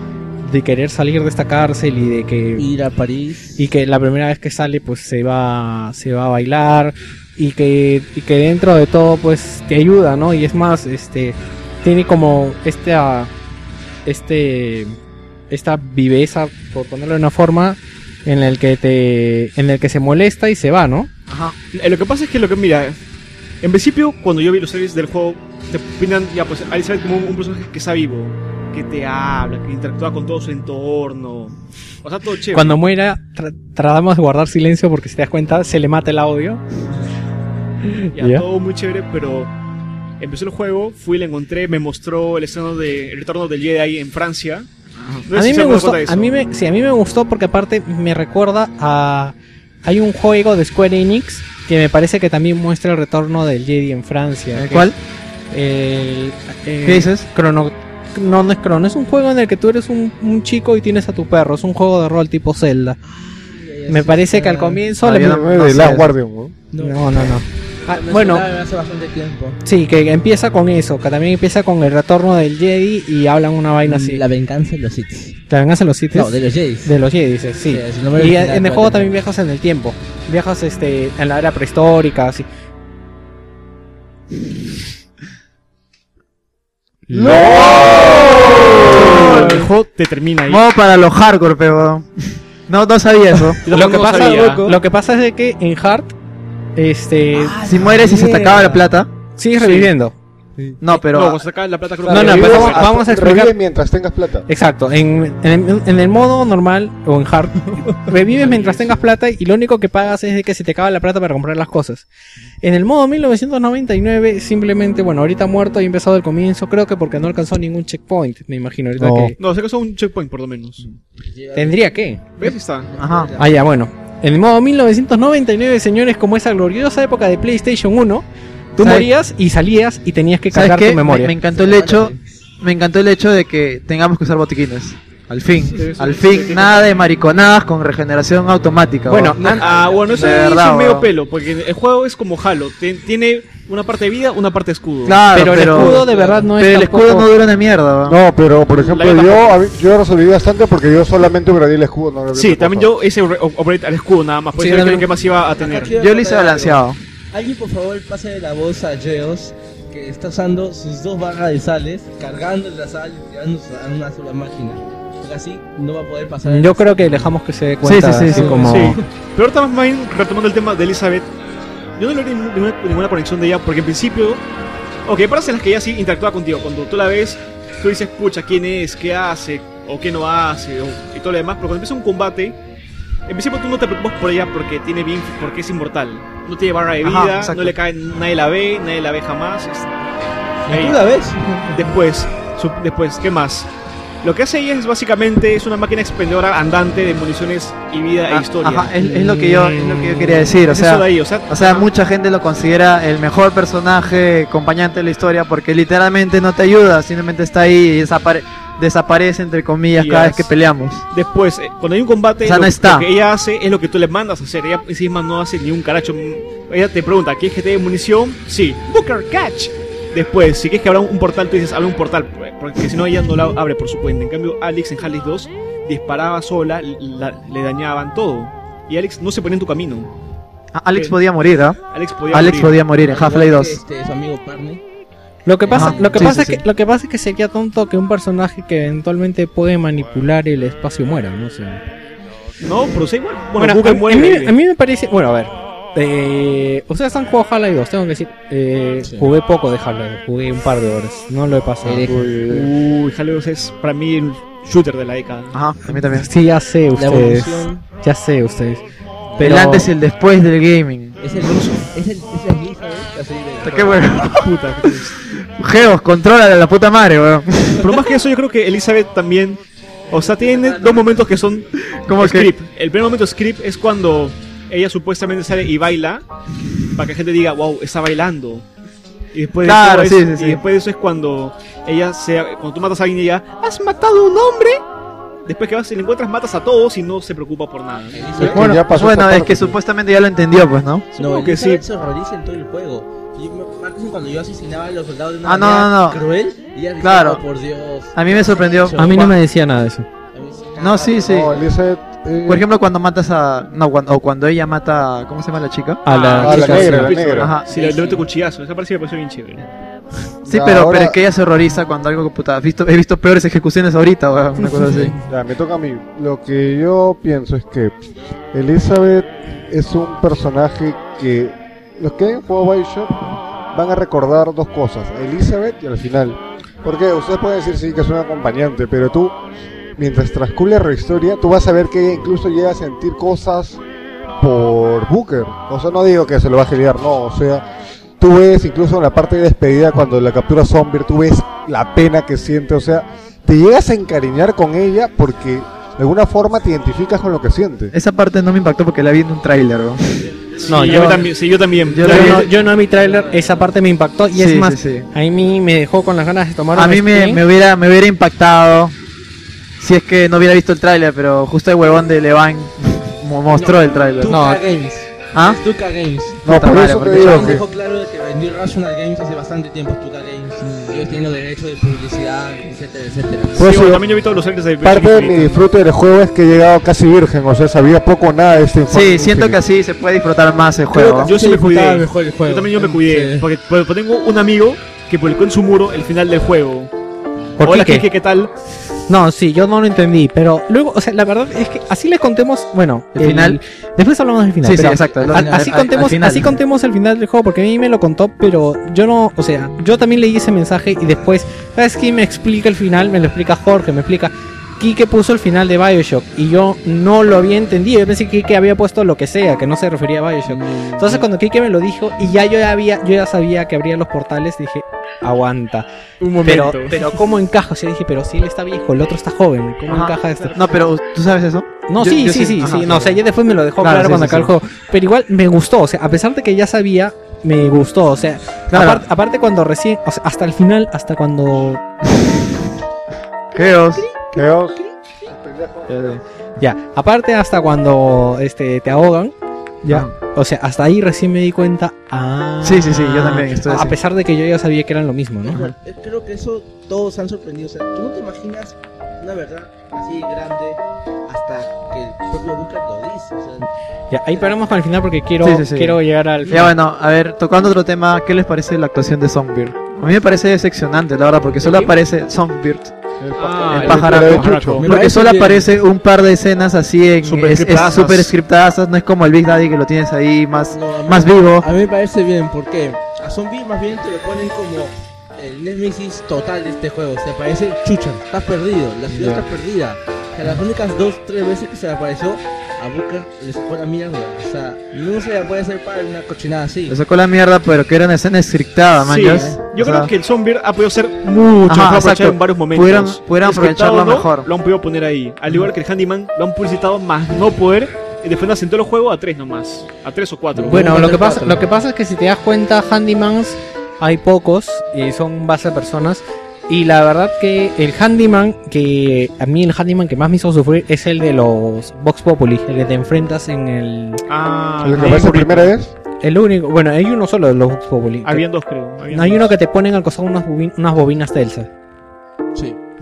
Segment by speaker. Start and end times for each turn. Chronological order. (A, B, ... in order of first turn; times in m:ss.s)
0:00.4-0:02.7 A
0:02.6-0:03.7 B
0:03.6-0:13.3 A
0:14.1-0:15.0 A
0:15.5-0:21.1 A
0:21.3-0:21.6 C
0:21.7-0:23.0 D
0:23.6-0:32.8 D
0:32.5-0:36.6 A
0:37.8-0:38.4 A
0:38.1-0:39.5 D
0:40.2-0:44.7 D
0:45.3-0:46.3 D
0:45.3-0:54.9 A
0:54.5-0:55.0 C
0:55.5-1:03.0 A
0:56.8-0:57.3 C
1:03.0-1:04.9 B
1:03.9-1:05.4 A
1:05.0-1:06.1 C
1:05.1-1:06.6 E
1:06.7-1:09.6 B
1:06.8-1:08.5 A
1:09.6-1:14.2 A
1:13.8-1:15.4 B
1:15.5-1:22.5 A
1:16.1-1:17.0 B
1:17.6-1:19.1 B
1:27.1-1:27.6 A
1:27.1-1:29.1 E
1:28.8-1:30.6 D
1:29.1-1:29.5 A
1:30.5-1:33.6 C
1:33.6-1:34.8 D
1:33.7-1:36.1 A
1:36.8-1:37.6 A
1:37.3-1:38.9 B
1:37.6-1:39.1 C
1:39.4-1:40.2 A
1:39.6-1:39.9 D
1:40.8-1:41.4 C
1:40.9-1:42.9 D
1:42.0-1:44.5 E
1:42.1-1:43.6 A
1:44.5-1:52.1 A
1:48.4-1:49.0 D
1:52.6-1:59.4 A
1:59.0-1:59.3 E
1:59.4-2:00.9 D
2:01.2-2:01.9 B
2:01.6-2:02.2 A
2:02.4-2:02.9 D
2:02.9-2:03.6 B
2:03.0-2:03.3 C
2:03.4-2:11.4 A
2:08.8-2:09.1 C
2:10.5-2:19.6 C
2:11.5-2:12.2 B
2:15.8-2:16.9 D
2:19.1-2:19.7 A
2:19.4-2:20.4 B
2:19.4-2:25.6 D
2:20.1-2:21.1 C
2:25.0-2:28.2 C
2:25.3-2:27.3 A
2:25.6-2:26.5 B
2:28.1-2:32.9 E
2:28.8-2:29.7 D
2:32.3-2:36.0 D
2:34.6-2:35.1 C
2:35.6-2:47.4 B
2:35.9-2:37.0 C
2:46.4-2:49.0 A
2:47.8-2:49.0 C
2:48.3-2:49.0 B
2:48.4-2:51.3 D
2:52.0-2:54.4 D
2:55.0-3:02.6 D
3:03.3-3:10.0 D
3:07.0-3:07.8 C
3:10.7-3:11.9 B
3:10.7-3:11.0 D
3:11.7-3:13.7 D
3:14.2-3:18.9 D
3:18.3-3:31.0 C
3:19.0-3:20.6 A
3:20.6-3:21.9 D
3:30.0-3:30.5 D
3:31.1-3:50.1 D
3:32.4-3:33.1 C
3:50.7-3:51.8 C
3:51.9-3:52.8 D
3:52.3-3:53.8 C
3:53.0-3:54.8 B
3:55.5-4:01.8 A
3:55.7-3:56.4 B
3:55.7-3:56.6 C
4:02.6-4:04.6 D
4:03.6-4:12.2 A
4:09.0-4:09.3 B
4:11.8-4:12.4 B
4:12.1-4:12.7 E
4:12.5-4:15.6 D
4:15.5-4:16.3 C
4:16.2-4:18.8 A
4:16.9-4:17.8 B
4:19.3-4:19.8 B
4:19.4-4:19.9 A
4:19.4-4:21.2 C
4:21.2-4:24.2 B
4:21.4-4:21.7 D
4:23.6-4:24.9 C
4:24.3-4:25.3 D
4:25.6-4:27.9 C
4:27.8-4:36.2 D
4:32.0-4:32.5 C
4:36.9-4:38.7 D
4:39.3-4:44.8 D
4:39.6-4:40.6 C
4:45.5-4:48.6 D
4:48.1-4:48.7 B
4:48.4-4:49.8 E
4:48.5-4:51.1 C
4:51.2-4:59.4 B
4:51.2-4:51.8 D
4:55.4-4:56.2 C
4:57.0-4:57.4 C
4:58.2-4:59.3 C
4:59.0-5:00.1 A
5:00.3-5:01.6 B
5:00.8-5:01.6 C
5:01.2-5:02.7 E
5:02.5-5:07.7 C
5:06.0-5:07.2 A
5:06.1-5:09.7 D
5:06.4-5:07.6 E
5:07.7-5:08.3 B
5:10.4-5:11.2 E
5:10.5-5:15.2 C
5:15.2-5:18.0 E
5:18.5-5:29.4 E
5:30.0-5:33.8 E
5:34.4-5:37.6 E
5:38.2-5:47.9 E
5:47.9-5:51.2 C
5:50.6-5:52.5 D
5:50.6-5:51.2 A
5:51.9-5:52.5 C
5:52.0-5:57.4 A
5:54.3-5:55.1 C
5:56.7-5:59.0 C
5:59.8-6:04.5 C
6:03.5-6:13.7 B
6:04.2-6:04.6 A
6:05.3-6:05.6 C
6:06.4-6:07.6 C
6:06.5-6:07.6 E
6:10.6-6:11.2 C
6:13.6-6:14.0 E
6:13.6-6:15.6 D
6:14.8-6:19.6 E
6:18.9-6:21.3 C
6:20.9-6:23.5 B
6:21.2-6:26.9 D
6:27.6-6:28.1 A
6:27.6-6:28.5 D
6:29.1-6:55.9 A
6:33.2-6:33.6 C
6:34.6-6:36.6 C
6:35.2-6:35.8 B
6:50.5-6:51.3 B
6:56.2-6:57.0 D
6:56.4-7:00.7 A
6:59.9-7:03.2 C
7:01.9-7:11.8 A
7:03.8-7:04.5 C
7:08.7-7:09.0 C
7:13.5-7:14.0 C
7:13.6-7:15.1 B
7:14.3-7:16.2 E
7:15.9-7:16.2 C
7:16.6-7:25.6 A
7:22.6-7:24.0 C
7:25.5-7:33.7 B
7:34.1-7:36.7 A
7:34.3-7:34.6 B
7:35.4-7:43.0 C
7:43.2-7:44.8 E
7:43.4-7:44.9 D
7:43.7-7:51.7 C
7:44.8-7:45.7 B
7:47.2-7:48.4 D
7:50.7-8:07.0 B
7:59.1-7:59.4 C
8:06.9-8:10.1 C
8:09.0-8:20.9 D
8:11.7-8:14.5 C
8:20.6-8:21.6 B
8:20.7-8:34.2 A
8:34.3-8:35.7 D
8:34.8-8:35.9 E
8:36.2-8:38.5 A
8:38.2-8:39.5 D
8:39.1-8:41.7 A